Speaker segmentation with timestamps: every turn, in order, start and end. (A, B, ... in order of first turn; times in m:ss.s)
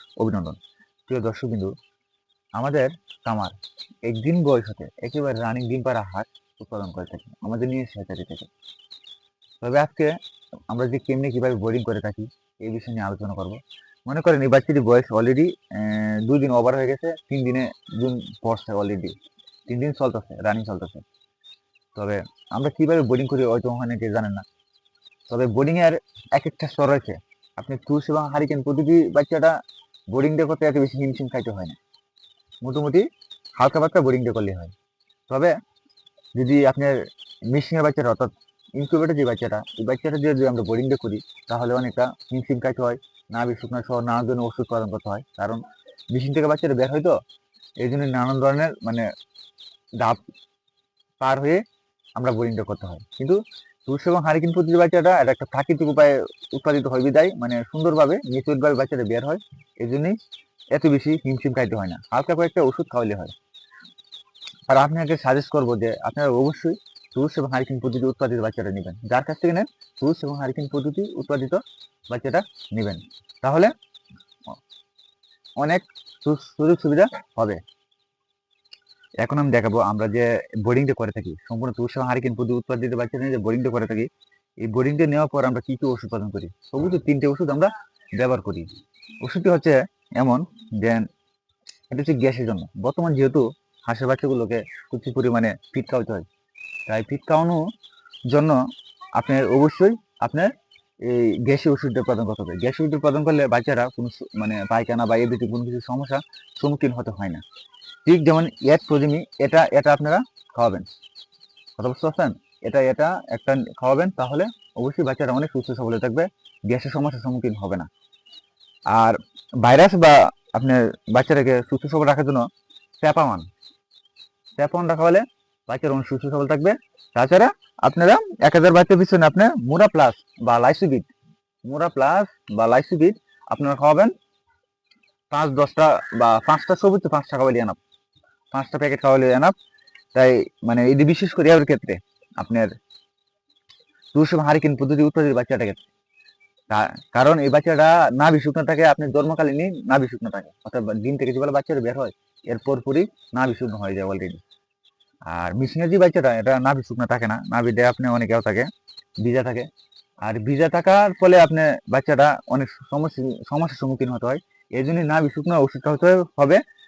0:00.2-0:00.6 A
0:01.1-0:01.7 A
0:02.6-0:03.5 A
0:04.0-0:08.5 A
0:09.6-0:10.2 A
0:10.7-0:19.1 A
0:19.7-0:21.0 A
0:22.0-0:24.4 A
0:25.3-0:29.6 A
0:30.1-0:31.8 A
0:32.6-0:33.0 A
0:33.6-0:34.7 A
0:35.3-0:35.6 A
0:36.4-0:37.0 A
0:37.5-0:45.6 A
0:46.1-0:47.2 A
0:47.8-0:49.1 A
0:51.2-0:51.6 A
0:52.2-1:00.2 A
1:00.7-1:03.3 A
1:04.7-1:13.7 A
1:15.6-1:17.6 A
1:19.2-1:24.1 A
1:24.6-1:28.7 A
1:29.2-1:31.0 A
1:31.9-1:36.2 A
1:36.9-1:37.6 A
1:38.3-1:38.6 A
1:39.2-1:40.5 A
1:41.0-1:47.4 A
1:48.0-1:50.8 A
1:51.8-1:57.9 A
1:58.9-2:02.5 A
2:03.0-2:03.4 A
2:04.6-2:11.1 A
2:11.6-2:14.1 A
2:15.3-2:17.8 A
2:18.5-2:19.5 A
2:20.1-2:22.7 A
2:24.1-2:25.9 A
2:26.7-2:34.4 A
2:35.3-2:38.7 A
2:39.2-2:39.7 A
2:40.2-2:46.6 A